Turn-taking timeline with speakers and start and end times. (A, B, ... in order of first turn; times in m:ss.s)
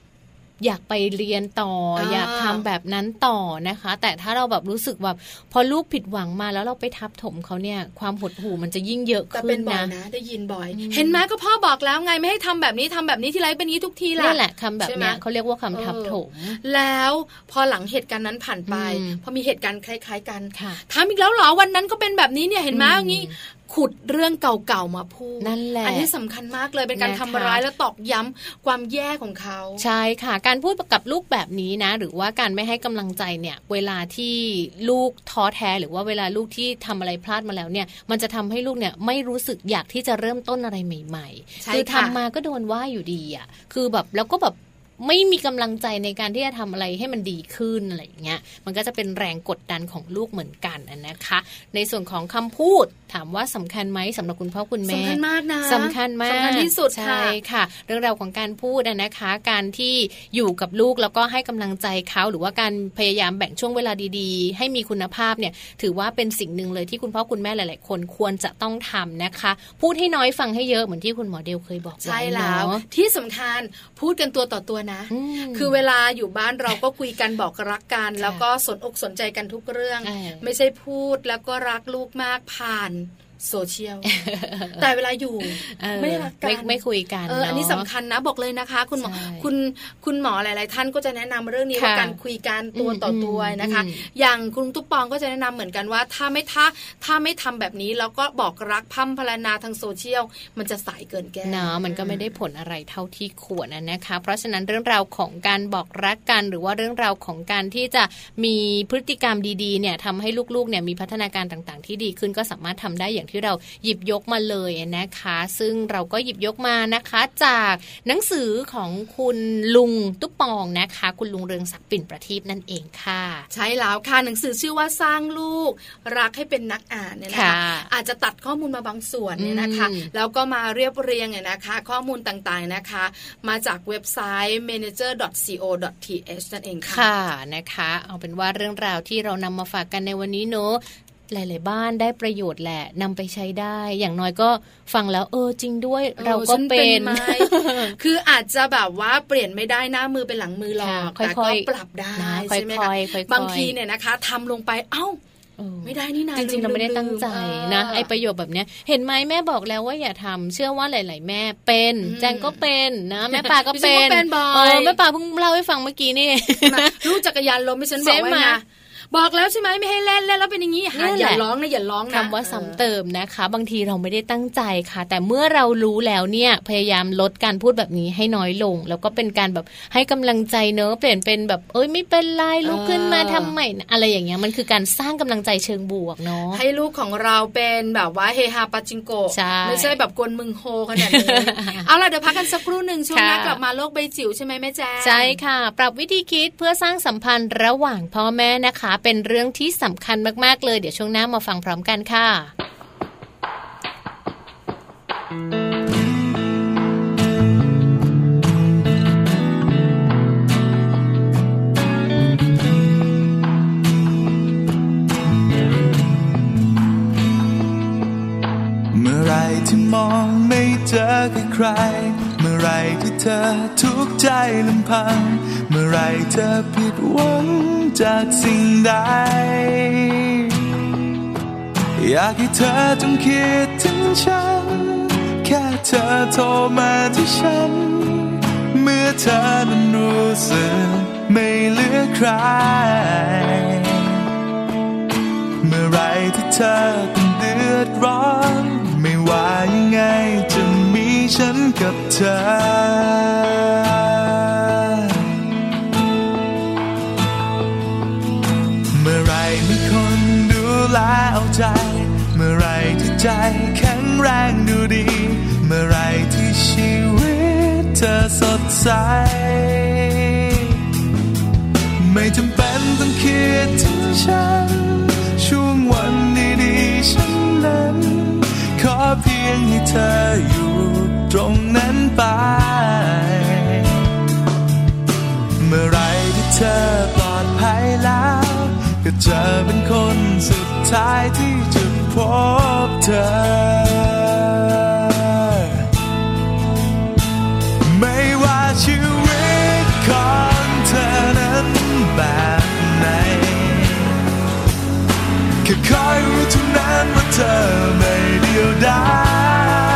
0:00.6-0:09.9 A
0:02.0-0:02.6 B
0:09.3-0:15.2 B
0:10.7-0:11.2 A
0:14.2-0:16.6 A
0:15.7-0:29.8 B
0:18.7-0:19.2 A
0:20.5-0:20.8 A
0:22.7-0:23.3 A
0:25.4-0:26.1 A
0:27.0-0:27.6 A
0:29.8-1:12.8 A
0:41.6-0:42.2 B
0:54.9-0:57.4 B
1:12.0-1:24.1 B
1:15.1-1:15.8 A
1:18.2-1:18.4 A
1:20.0-1:20.4 A
1:24.0-1:24.9 A
1:24.8-1:42.3 B
1:25.4-1:27.9 A
1:29.0-1:29.5 A
1:31.7-1:32.2 A
1:32.7-1:34.0 A
1:41.4-2:03.5 A
2:03.5-2:17.0 B
2:07.3-2:07.9 A
2:09.4-2:10.1 A
2:16.9-2:28.0 A
2:26.2-2:35.2 B
2:30.8-2:33.7 A
2:35.6-2:47.2 A
2:35.8-2:38.1 B
2:42.0-2:42.6 B
2:43.3-2:45.0 B
2:46.6-2:52.8 B
2:48.0-2:48.6 A
2:50.9-2:51.4 A
2:52.1-3:06.6 A
3:02.6-3:03.5 B
3:06.5-3:15.4 B
3:09.3-3:10.0 A
3:11.0-3:12.5 A
3:13.1-3:13.6 A
3:15.0-3:22.5 A
3:39.1-3:41.7 C
3:42.2-3:44.3 C
3:45.5-3:47.8 C
3:48.9-3:49.2 C
3:52.0-3:54.7 C
3:55.5-3:58.0 C
3:58.8-4:01.6 C
4:02.2-4:02.7 C
4:05.7-4:10.1 C
4:10.7-4:13.2 C
4:32.2-4:34.3 C
4:35.6-4:37.8 C
4:38.8-4:39.6 C
4:40.1-4:41.4 C
4:42.2-4:42.7 C
4:45.7-4:47.8 C
4:48.8-4:54.1 C
4:57.9-5:01.2 C
5:02.2-5:02.9 C
5:05.6-5:09.6 C